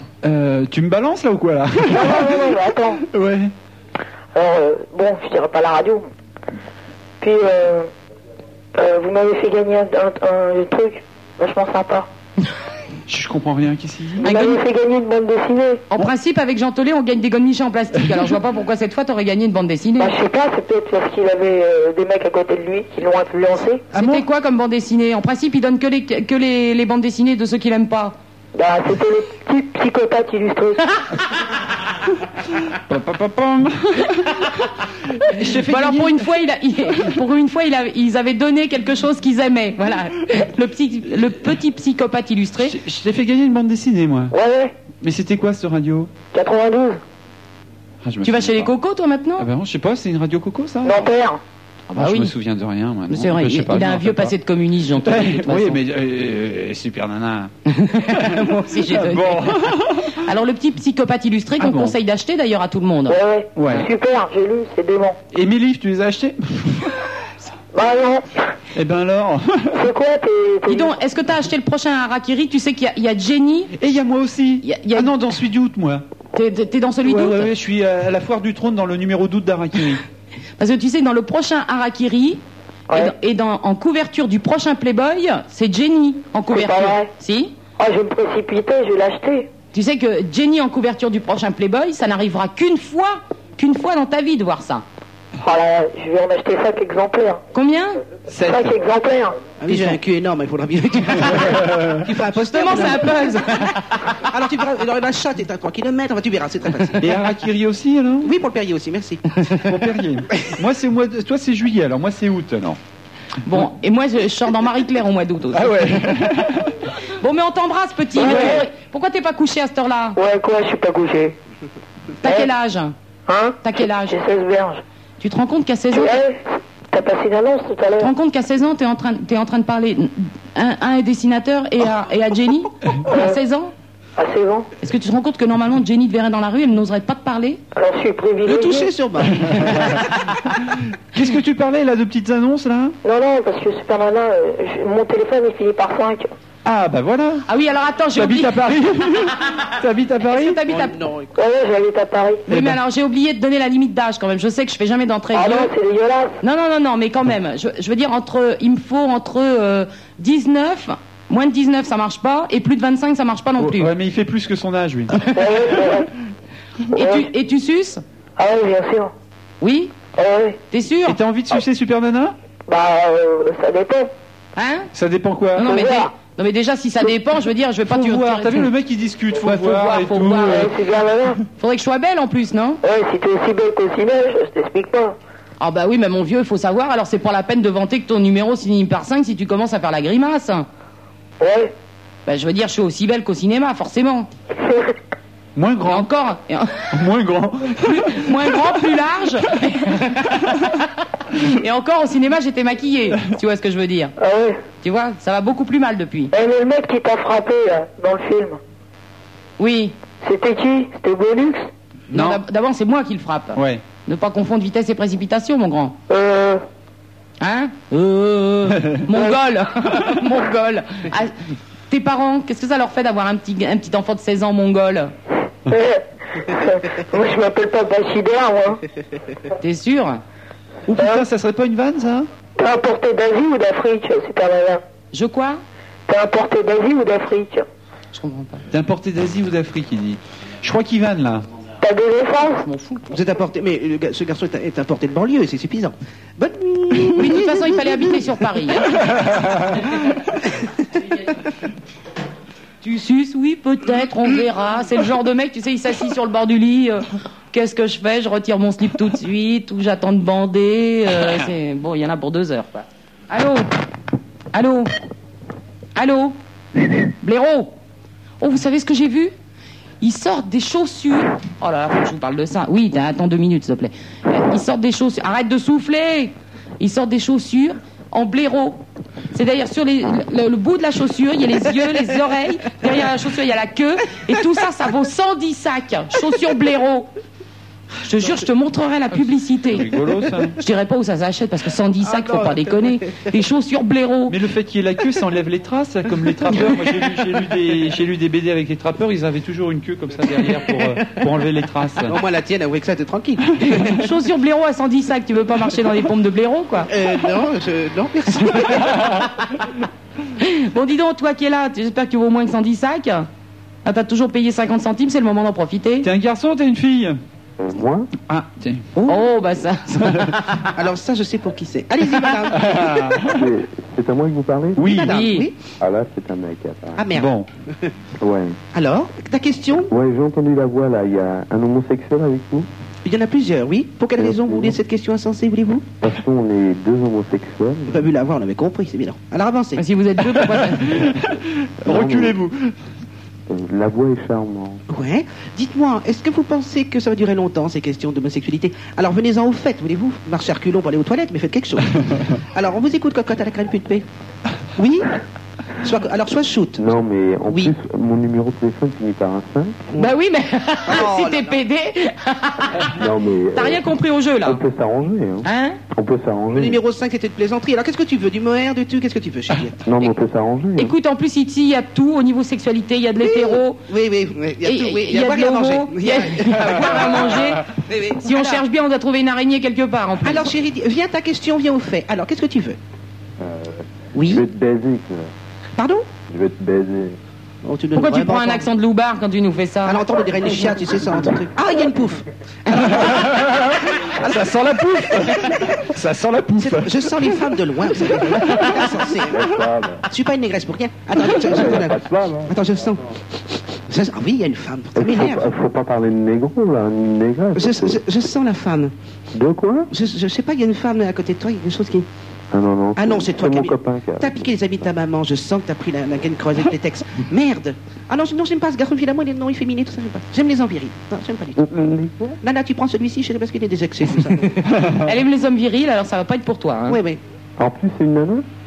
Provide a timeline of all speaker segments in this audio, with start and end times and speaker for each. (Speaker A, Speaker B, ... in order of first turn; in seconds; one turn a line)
Speaker A: 0.2-3.5
Speaker B: 1.9-3.0
Speaker B: 4.3-6.1
Speaker B: 7.2-7.9
Speaker B: 8.8-12.1
Speaker A: 13.1-14.3
Speaker B: 14.2-15.9
Speaker C: 14.2-14.6
Speaker C: 15.9-20.1
Speaker B: 20.0-23.9
Speaker A: 23.9-24.3
Speaker C: 23.9-28.2
Speaker B: 28.6-30.9
Speaker A: 32.7-34.5
Speaker A: 35.1-36.3
Speaker C: 35.6-42.8
Speaker A: 42.6-44.3
Speaker B: 44.3-44.8
Speaker A: 45.0-46.1
Speaker B: 46.3-47.0
Speaker A: 48.0-48.7
Speaker C: 48.2-49.5
Speaker A: 49.4-51.1
Speaker B: 50.8-51.4
Speaker A: 51.9-54.4
Speaker C: 52.0-52.3
Speaker C: 53.1-55.8
Speaker A: 55.0-57.5
Speaker C: 57.7-63.2
Speaker A: 58.1-60.2
Speaker A: 61.6-62.0
Speaker B: 63.1-65.2
Speaker A: 63.5-63.9
Speaker A: 65.3-67.0
Speaker B: 67.7-68.3
Speaker A: 68.7-69.8
Speaker B: 69.7-70.9
Speaker C: 70.7-73.7
Speaker A: 73.8-76.0
Speaker C: 74.6-75.1
Speaker C: 76.3-77.5
Speaker A: 77.0-80.0
Speaker C: 80.6-87.5
Speaker B: 86.5-87.1
Speaker B: 87.8-89.5
Speaker C: 89.7-94.8
Speaker B: 95.4-97.4
Speaker C: 97.5-98.0
Speaker A: 98.3-98.8
Speaker B: 98.4-99.4
Speaker D: 99.6-107.1
Speaker A: 101.5-101.9
Speaker C: 102.4-103.8
Speaker A: 107.0-108.3
Speaker D: 108.2-109.4
Speaker A: 109.5-112.8
Speaker C: 113.4-116.1
Speaker A: 115.5-116.8
Speaker C: 117.2-120.2
Speaker B: 118.2-118.7
Speaker A: 118.2-118.6
Speaker B: 120.2-121.4
Speaker C: 122.2-123.0
Speaker B: 123.3-124.8
Speaker C: 123.6-124.2
Speaker C: 125.2-126.2
Speaker B: 125.9-128.1
Speaker C: 128.0-133.7
Speaker B: 133.1-133.4
Speaker B: 134.2-134.7
Speaker C: 134.8-137.6
Speaker B: 137.8-138.9
Speaker D: 138.4-140.1
Speaker A: 141.1-143.0
Speaker B: 143.0-146.3
Speaker A: 146.7-147.5
Speaker C: 147.5-149.6
Speaker A: 148.1-150.6
Speaker C: 150.2-150.9
Speaker D: 150.7-151.3
Speaker B: 151.3-152.4
Speaker A: 152.5-152.8
Speaker C: 152.5-155.7
Speaker B: 155.3-156.4
Speaker C: 156.4-163.9
Speaker A: 163.6-165.2
Speaker B: 165.3-166.1
Speaker C: 166.9-168.0
Speaker B: 166.9-167.2
Speaker B: 168.4-169.1
Speaker C: 169.6-169.9
Speaker B: 170.2-170.6
Speaker C: 170.7-171.2
Speaker A: 171.1-172.4
Speaker B: 172.7-174.1
Speaker C: 174.6-174.9
Speaker A: 174.9-175.7
Speaker C: 175.6-178.7
Speaker B: 175.6-176.1
Speaker A: 177.9-180.8
Speaker C: 179.4-180.7
Speaker B: 180.5-181.4
Speaker C: 181.6-182.8
Speaker B: 182.8-185.2
Speaker C: 185.6-190.7
Speaker B: 191.4-191.7
Speaker C: 192.3-194.3
Speaker B: 194.6-194.9
Speaker A: 195.6-196.1
Speaker C: 195.9-197.0
Speaker A: 196.9-198.6
Speaker C: 197.8-204.1
Speaker B: 204.2-204.6
Speaker C: 204.8-206.3
Speaker B: 206.3-208.6
Speaker C: 209.6-209.9
Speaker B: 210.2-211.7
Speaker A: 212.1-212.4
Speaker C: 212.1-216.0
Speaker A: 213.6-213.8
Speaker B: 216.1-216.6
Speaker C: 217.4-221.3
Speaker C: 221.9-225.1
Speaker B: 225.7-228.8
Speaker C: 229.6-230.2
Speaker A: 230.9-232.3
Speaker B: 231.0-231.2
Speaker B: 232.6-234.8
Speaker C: 235.1-235.6
Speaker B: 236.1-237.7
Speaker C: 238.1-238.6
Speaker A: 238.7-241.5
Speaker B: 241.8-242.6
Speaker C: 242.6-243.0
Speaker D: 243.1-248.2
Speaker C: 247.2-248.9
Speaker C: 252.8-263.7
Speaker C: 264.5-264.9
Speaker C: 266.0-266.4
Speaker C: 267.2-267.7
Speaker C: 268.4-269.3
Speaker C: 270.0-278.8
Speaker C: 279.3-287.1
Speaker C: 288.0-289.9
Speaker A: 289.1-290.6
Speaker C: 290.6-294.4
Speaker D: 292.0-292.9
Speaker A: 294.3-302.2
Speaker D: 302.1-304.1
Speaker C: 303.6-306.9
Speaker D: 306.9-309.3
Speaker C: 310.4-313.3
Speaker C: 313.9-316.1
Speaker A: 316.0-317.2
Speaker E: 317.6-318.1
Speaker A: 318.3-318.9
Speaker C: 319.0-320.7
Speaker D: 320.7-323.3
Speaker A: 322.5-323.4
Speaker E: 323.3-325.0
Speaker A: 324.8-325.2
Speaker D: 324.8-325.6
Speaker C: 325.1-325.5
Speaker E: 325.8-327.1
Speaker D: 327.0-327.3
Speaker A: 327.1-327.5
Speaker E: 328.2-328.6
Speaker D: 328.7-329.9
Speaker E: 329.9-332.7
Speaker D: 333.1-335.9
Speaker E: 334.2-334.8
Speaker E: 336.0-338.1
Speaker D: 337.9-339.8
Speaker C: 339.8-341.1
Speaker A: 340.4-342.8
Speaker E: 341.9-342.4
Speaker E: 343.5-344.8
Speaker D: 344.9-354.1
Speaker D: 354.8-355.2
Speaker D: 355.8-356.9
Speaker E: 356.8-359.8
Speaker D: 357.5-357.7
Speaker C: 360.0-362.9
Speaker D: 360.9-361.6
Speaker E: 363.0-363.9
Speaker C: 363.6-364.6
Speaker E: 364.4-366.8
Speaker C: 365.4-365.8
Speaker D: 366.5-369.8
Speaker E: 369.9-370.9
Speaker C: 370.8-373.8
Speaker D: 373.2-378.6
Speaker C: 374.6-380.5
Speaker D: 380.2-382.8
Speaker E: 383.4-385.3
Speaker D: 384.1-384.5
Speaker D: 385.8-386.1
Speaker E: 386.3-387.2
Speaker D: 387.6-388.7
Speaker C: 388.0-390.0
Speaker D: 389.9-394.6
Speaker A: 393.1-393.6
Speaker A: 394.2-397.5
Speaker D: 395.1-395.9
Speaker D: 396.6-399.6
Speaker E: 399.3-400.0
Speaker D: 400.1-403.1
Speaker E: 401.3-402.9
Speaker D: 403.9-405.6
Speaker E: 404.9-408.0
Speaker D: 407.6-408.9
Speaker E: 409.3-409.9
Speaker D: 409.9-412.1
Speaker E: 412.5-414.5
Speaker D: 413.0-421.7
Speaker E: 421.6-422.4
Speaker D: 422.4-424.8
Speaker C: 424.9-427.0
Speaker D: 426.9-427.2
Speaker E: 427.6-428.5